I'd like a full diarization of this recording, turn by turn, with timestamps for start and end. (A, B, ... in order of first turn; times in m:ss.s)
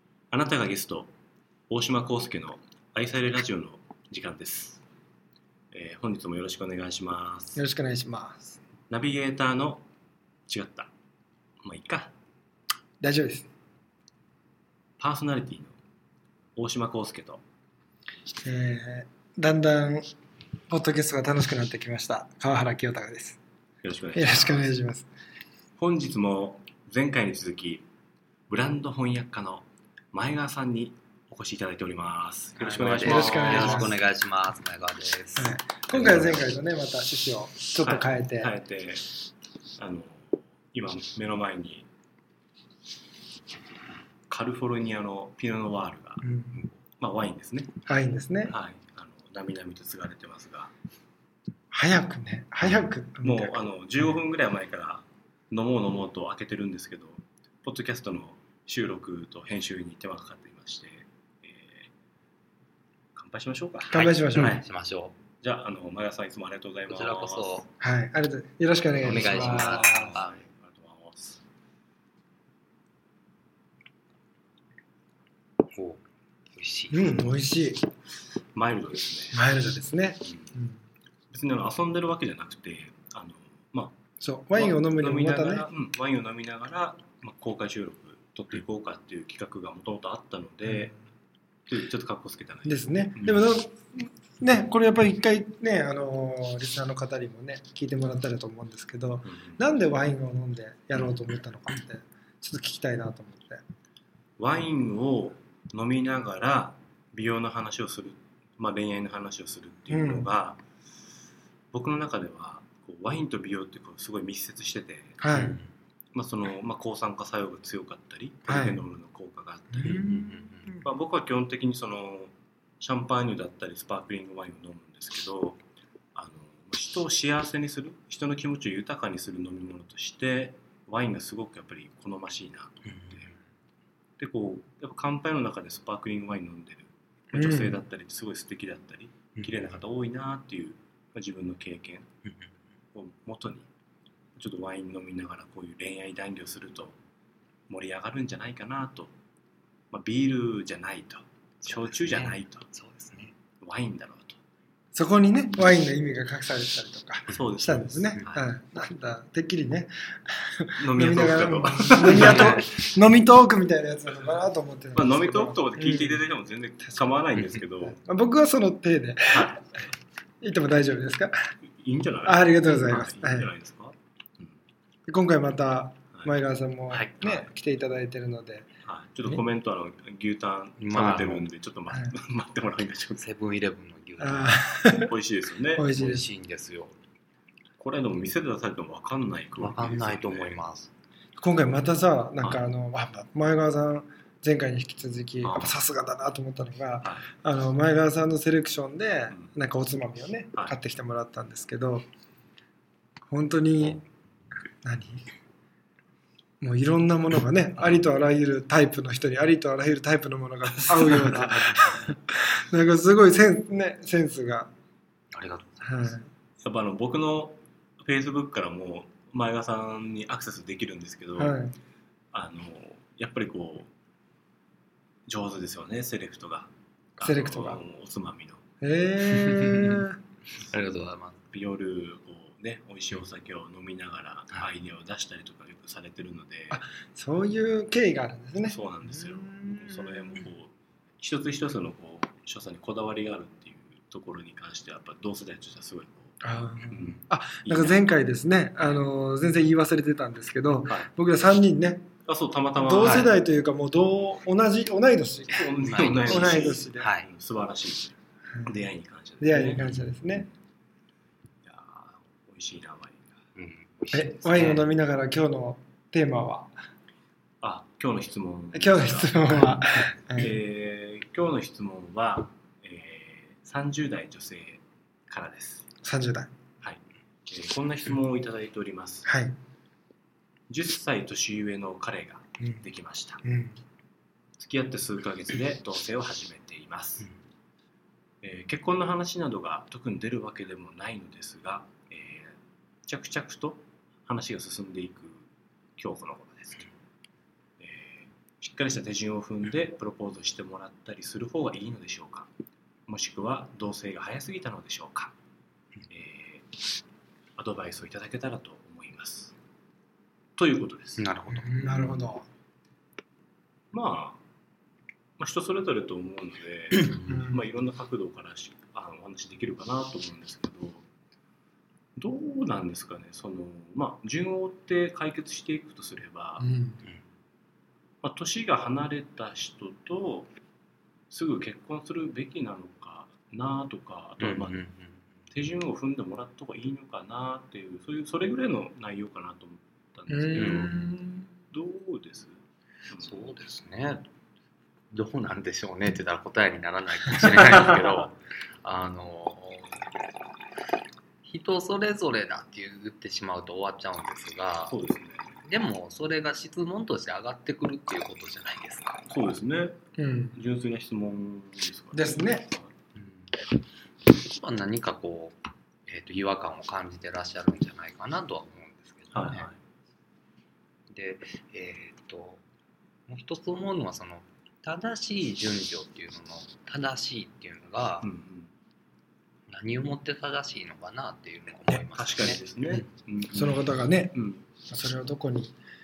0:00.3-0:01.1 A
0:01.7-0:04.8 A
0:05.7-0:07.6 A
0:07.6-0:08.6 B
0:08.9-0:09.8 A
0:10.5-0:10.9 A
0:11.6-0:12.1 A
0:13.0-0:13.5 B
0:15.0-0:15.7 A
0:16.6-0:17.4 A
0:18.4-0:20.1 B
0:20.7-0:23.4 B
0:23.8-0:24.7 A
0:24.1-0:25.1 B
0:25.8-0:27.8 A
0:28.5-0:33.9 A
0:32.6-0:36.4 C
0:33.0-0:34.0 B
0:35.4-0:38.5 B
0:37.8-0:39.1 A
0:39.8-0:41.9 A
0:44.3-0:46.2 A
0:46.2-0:46.6 B
0:47.0-0:47.7 A
0:47.8-0:48.5 B
0:48.4-0:50.7 A
0:51.7-0:53.6 B
0:53.2-1:01.9 A
1:03.1-1:04.6 A
1:03.9-1:04.6 B
1:04.0-1:05.1 C
1:05.4-1:07.6 A
1:06.9-1:07.7 C
1:07.8-1:10.3 B
1:09.0-1:11.4 A
1:09.0-1:10.3 C
1:15.7-1:17.2 C
1:16.9-1:17.9 B
1:18.5-1:19.4 A
1:19.3-1:20.8 B
1:20.2-1:20.5 A
1:21.3-1:23.9 A
1:24.2-1:25.7 B
1:24.5-1:30.9 A
1:30.6-1:30.9 B
1:31.7-1:33.4 A
1:32.6-1:43.6 B
1:39.2-1:39.6 A
1:44.4-1:50.6 A
1:49.9-1:50.3 B
1:51.7-1:55.2 A
1:55.2-1:55.6 B
1:55.3-1:55.7 C
1:56.1-2:00.0 A
1:58.5-1:58.8 B
1:59.7-2:00.8 B
1:59.8-2:00.7 C
2:00.8-2:05.6 A
2:06.1-2:13.3 A
2:12.9-2:13.2 C
2:14.2-2:22.1 A
2:17.3-2:17.8 B
2:19.4-2:19.8 C
2:22.9-2:23.7 A
2:24.4-2:27.0 A
2:27.7-2:29.1 A
2:29.9-2:32.7 A
2:31.6-2:33.3 C
2:33.6-2:34.4 A
2:34.9-2:46.2 B
2:37.3-2:38.5 A
2:40.8-2:42.7 A
2:42.2-2:42.6 C
2:44.9-2:48.0 A
2:47.8-2:49.6 B
2:49.3-2:49.7 A
2:50.4-2:51.3 B
2:51.7-2:54.5 A
2:52.2-2:53.5 B
2:55.1-2:58.7 B
2:56.9-2:57.5 A
2:58.8-3:03.3 A
3:00.8-3:01.5 C
3:03.2-3:04.7 C
3:04.2-3:05.1 B
3:04.9-3:05.8 A
3:05.7-3:06.3 B
3:05.9-3:07.0 C
3:07.8-3:10.6 A
3:09.6-3:10.9 C
3:11.4-3:22.0 B
3:15.4-3:15.8 A
3:17.0-3:17.3 A
3:23.3-3:24.0 B
3:24.8-3:25.2 B
3:26.6-3:34.7 B
3:31.3-3:31.7 C
3:35.3-3:36.2 C
3:35.8-3:36.2 B
3:36.6-3:41.6 A
3:41.4-3:41.7 B
3:42.3-3:43.9 A
3:45.3-3:48.6 A
3:47.2-3:47.8 B
3:48.8-3:50.2 B
3:49.3-3:50.0 C
3:50.6-3:51.4 C
3:51.5-3:56.8 A
3:56.7-4:00.4 B
3:58.6-4:06.4 A
4:06.4-4:12.1 B
4:06.9-4:08.0 A
4:12.2-4:13.4 A
4:12.8-4:17.1 B
4:13.0-4:13.3 C
4:15.5-4:19.9 A
4:15.8-4:17.3 C
4:19.4-4:20.5 B
4:21.6-4:23.4 A
4:23.6-4:24.8 C
4:24.1-4:26.7 B
4:27.6-4:29.5 A
4:28.7-4:30.6 B
4:30.3-4:35.9 A
4:36.0-4:36.5 B
4:36.8-4:39.3 A
4:39.2-4:39.6 B
4:40.7-4:43.4 A
4:43.4-4:43.8 B
4:44.6-4:47.3 A
4:48.4-4:56.9 A
4:57.8-5:02.5 A
5:03.1-5:05.3 A
5:06.1-5:06.7 A
5:07.6-5:09.5 A
5:10.6-5:11.3 A
5:11.2-5:12.2 C
5:11.5-5:12.4 B
5:13.9-5:14.4 A
5:15.4-5:21.0 A
5:17.2-5:17.6 B
5:22.2-5:26.6 A
5:26.6-5:27.0 B
5:28.2-5:30.5 A
5:31.3-5:34.8 A
5:34.4-5:35.2 C
5:35.5-5:41.0 A
5:40.3-5:41.5 B
5:40.6-5:40.9 C
5:41.7-5:43.5 A
5:43.2-5:44.2 C
5:45.1-5:50.0 C
5:47.5-5:48.2 A
5:51.4-5:55.0 C
5:54.9-5:55.5 A
5:55.6-5:59.2 C
5:59.3-6:00.0 A
6:00.2-6:00.6 B
6:00.5-6:02.9 A
6:02.1-6:02.7 B
6:03.2-6:03.5 C
6:04.2-6:09.7 C
6:09.3-6:09.8 A
6:11.1-6:12.6 C
6:13.3-6:18.3 C
6:18.2-6:18.7 A
6:19.7-6:22.6 C
6:21.9-6:24.6 A
6:22.9-6:24.4 B
6:24.9-6:25.8 B